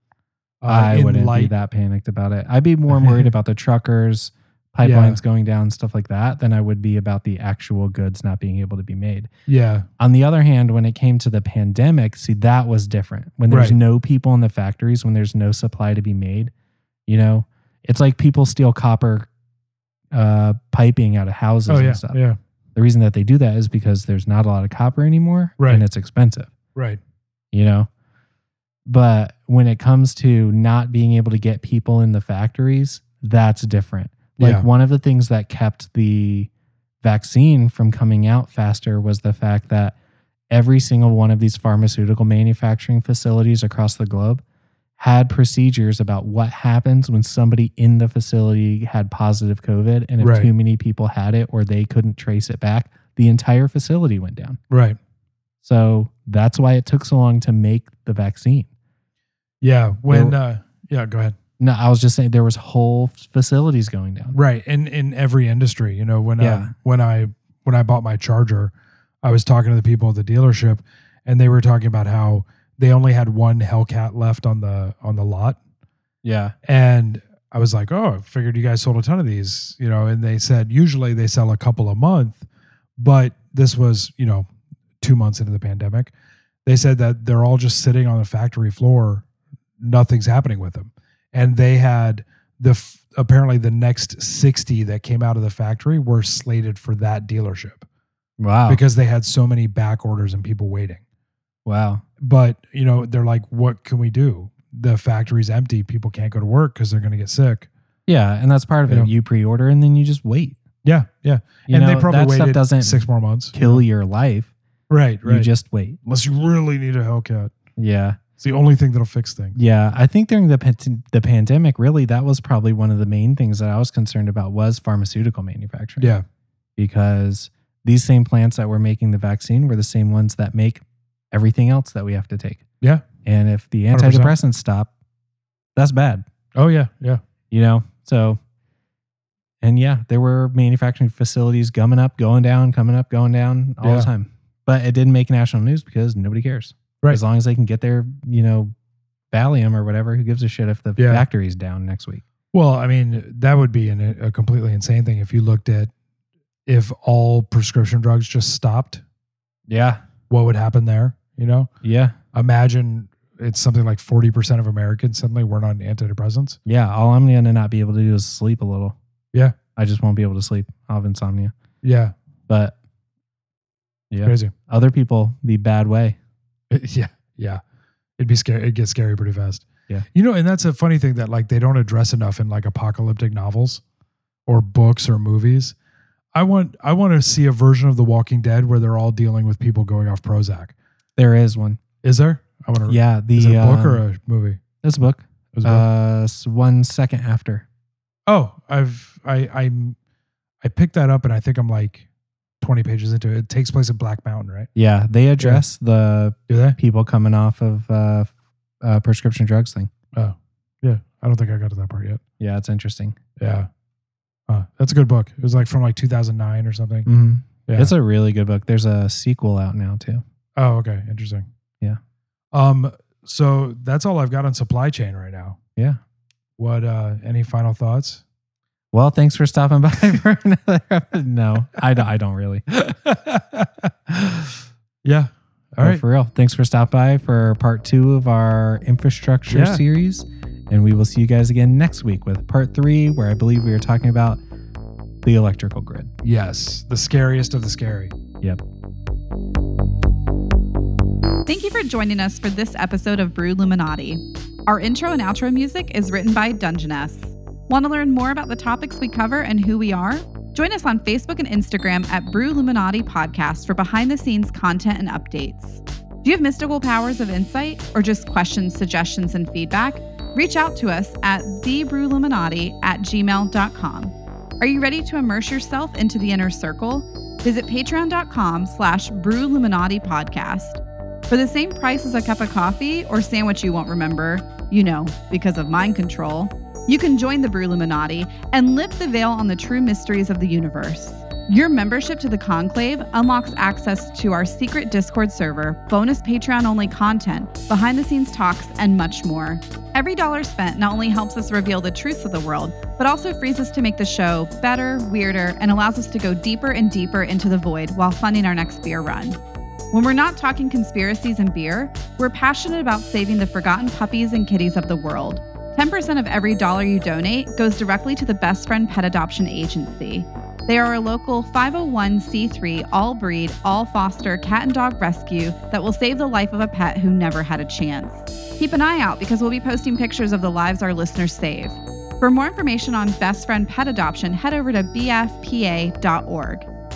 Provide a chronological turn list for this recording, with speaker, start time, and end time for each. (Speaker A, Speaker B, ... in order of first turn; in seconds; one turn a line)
Speaker A: 0.6-1.5
Speaker B: 0.7-9.3
Speaker A: 2.9-3.3
Speaker A: 4.8-5.2
Speaker A: 9.5-9.9
Speaker B: 10.0-16.5
Speaker A: 13.5-13.8
Speaker B: 17.1-19.3
Speaker B: 20.1-22.2
Speaker A: 21.7-22.4
Speaker B: 22.8-26.5
Speaker A: 25.6-25.9
Speaker A: 26.8-27.0
Speaker B: 27.5-27.9
Speaker B: 28.9-36.5
Speaker A: 34.4-34.7
Speaker B: 37.0-40.0
Speaker B: 40.5-44.4
Speaker B: 45.0-54.6
Speaker A: 50.2-50.5
Speaker A: 54.7-55.0
Speaker B: 55.6-58.7
Speaker A: 59.6-61.4
Speaker B: 60.1-60.4
Speaker B: 61.6-64.4
Speaker A: 64.3-75.6
Speaker B: 66.4-66.7
Speaker B: 76.2-76.5
Speaker A: 76.6-82.5
Speaker A: 83.0-84.5
Speaker A: 85.0-86.1
Speaker A: 86.7-89.3
Speaker A: 89.8-97.8
Speaker B: 98.4-98.8
Speaker A: 98.7-101.0
Speaker B: 101.7-102.0
Speaker A: 102.2-107.7
Speaker B: 108.1-110.6
Speaker A: 110.8-113.8
Speaker B: 111.7-114.5
Speaker A: 114.9-115.5
Speaker B: 115.2-116.0
Speaker A: 116.1-117.5
Speaker B: 117.8-118.2
Speaker A: 118.4-119.6
Speaker B: 119.5-126.1
Speaker A: 126.0-126.2
Speaker B: 126.8-132.7
Speaker A: 132.8-133.1
Speaker B: 133.2-134.9
Speaker A: 133.9-134.3
Speaker B: 135.8-136.2
Speaker A: 136.6-137.2
Speaker B: 137.5-138.4
Speaker B: 139.6-148.7
Speaker A: 143.8-144.1
Speaker B: 149.3-152.2
Speaker A: 151.0-151.2
Speaker A: 152.5-155.9
Speaker A: 156.7-159.0
Speaker B: 159.7-160.0
Speaker A: 160.3-161.7
Speaker B: 161.8-162.2
Speaker A: 162.3-166.6
Speaker B: 166.7-169.0
Speaker B: 169.8-171.5
Speaker A: 171.8-172.1
Speaker B: 172.5-172.8
Speaker B: 174.1-176.2
Speaker A: 174.2-174.5
Speaker A: 176.7-177.6
Speaker A: 178.2-183.8
Speaker A: 184.5-185.8
Speaker A: 186.3-190.7
Speaker B: 191.2-191.8
Speaker A: 192.0-194.6
Speaker B: 192.9-194.0
Speaker B: 194.8-197.7
Speaker A: 195.5-195.9
Speaker A: 198.3-200.0
Speaker A: 200.6-202.1
Speaker A: 202.6-204.7
Speaker B: 204.8-209.9
Speaker A: 206.5-206.8
Speaker A: 210.1-212.2
Speaker B: 212.4-213.2
Speaker A: 213.4-213.7
Speaker A: 214.5-217.1
Speaker B: 217.1-220.2
Speaker A: 217.7-217.9
Speaker A: 220.6-221.5
Speaker A: 222.5-225.6
Speaker A: 226.6-228.2
Speaker B: 228.9-232.7
Speaker A: 232.7-236.0
Speaker B: 235.8-244.4
Speaker A: 239.5-239.8
Speaker B: 245.2-246.1
Speaker A: 246.2-248.1
Speaker C: 251.5-309.4
Speaker C: 309.9-336.7